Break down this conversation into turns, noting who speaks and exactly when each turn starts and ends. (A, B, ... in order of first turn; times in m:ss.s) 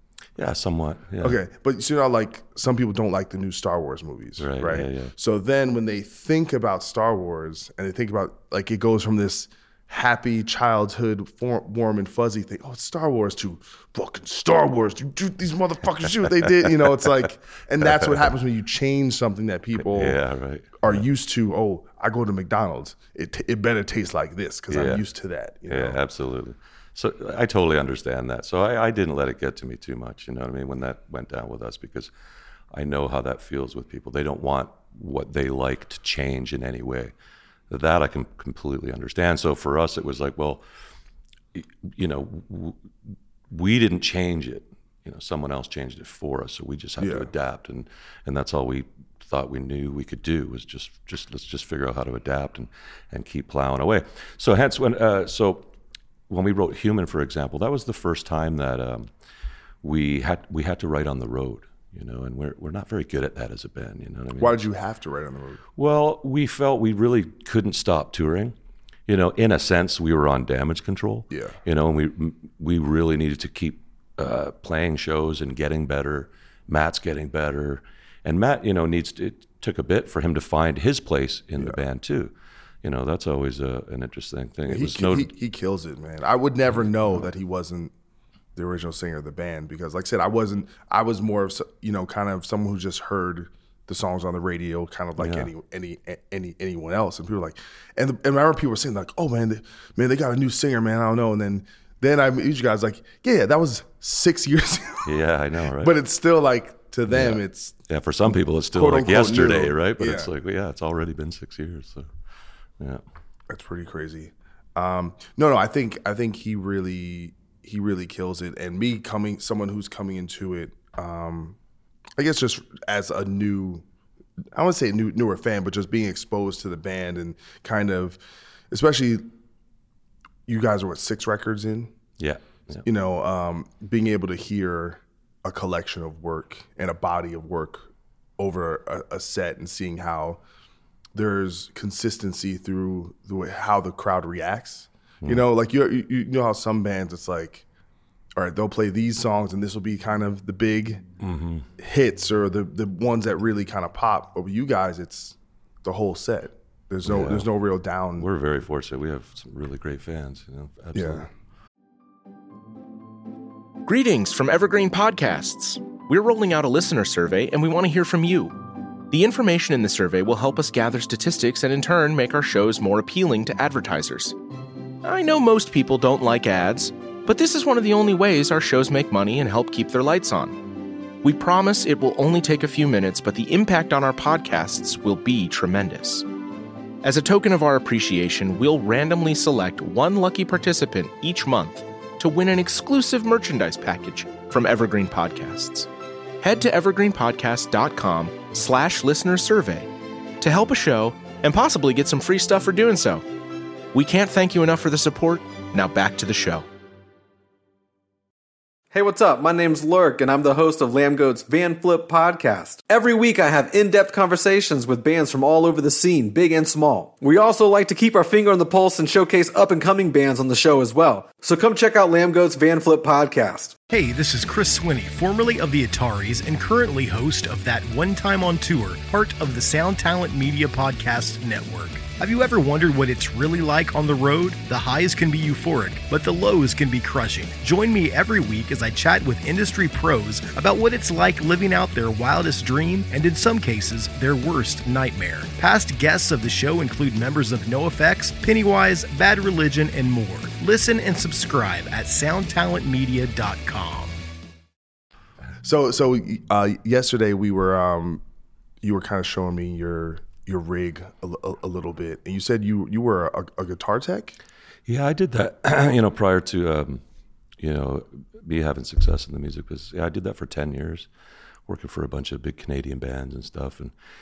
0:00.4-0:01.4 A
0:01.2-0:20.2 B
0:04.4-0:05.1 A
0:17.8-0:18.3 A
0:19.8-0:21.0 A
0:20.8-0:26.0 B
0:24.7-0:25.0 A
0:25.7-0:32.1 A
0:32.7-0:37.1 A
0:37.7-0:40.6 A
0:41.5-0:55.7 A
0:47.0-0:47.3 B
0:56.3-0:59.1 A
0:59.8-1:04.6 A
1:04.4-1:05.6 B
1:05.8-1:08.6 A
1:09.1-1:25.3 A
1:11.3-1:11.6 B
1:24.7-1:27.9 B
1:28.6-1:45.1 B
1:35.2-1:35.5 A
1:45.0-1:46.0 A
1:45.8-1:47.8 B
1:47.1-1:52.1 A
1:48.7-1:50.3 B
1:53.5-2:01.6 B
2:02.2-2:03.8 B
2:04.5-2:08.2 B
2:08.7-2:09.3 B
2:10.5-2:11.9 B
2:12.2-2:12.8 A
2:12.8-2:20.4 B
2:21.2-2:27.6 B
2:28.4-2:31.0 B
2:31.2-2:31.7 A
2:31.8-2:38.3 B
2:37.0-2:37.5 A
2:38.2-2:41.3 A
2:41.0-2:41.3 B
2:43.8-2:48.6 C
2:49.1-2:54.4 C
2:55.0-3:00.6 C
3:01.2-3:06.2 C
3:07.0-3:15.9 C
3:16.4-3:19.9 C
3:20.4-3:23.2 C
3:23.9-3:26.6 C
3:28.9-3:43.8 D
3:43.9-4:14.2 E
4:15.6-4:18.2 B
4:18.8-4:24.4 B
4:24.9-4:27.0 A
4:27.6-4:31.1 A
4:31.7-4:33.9 A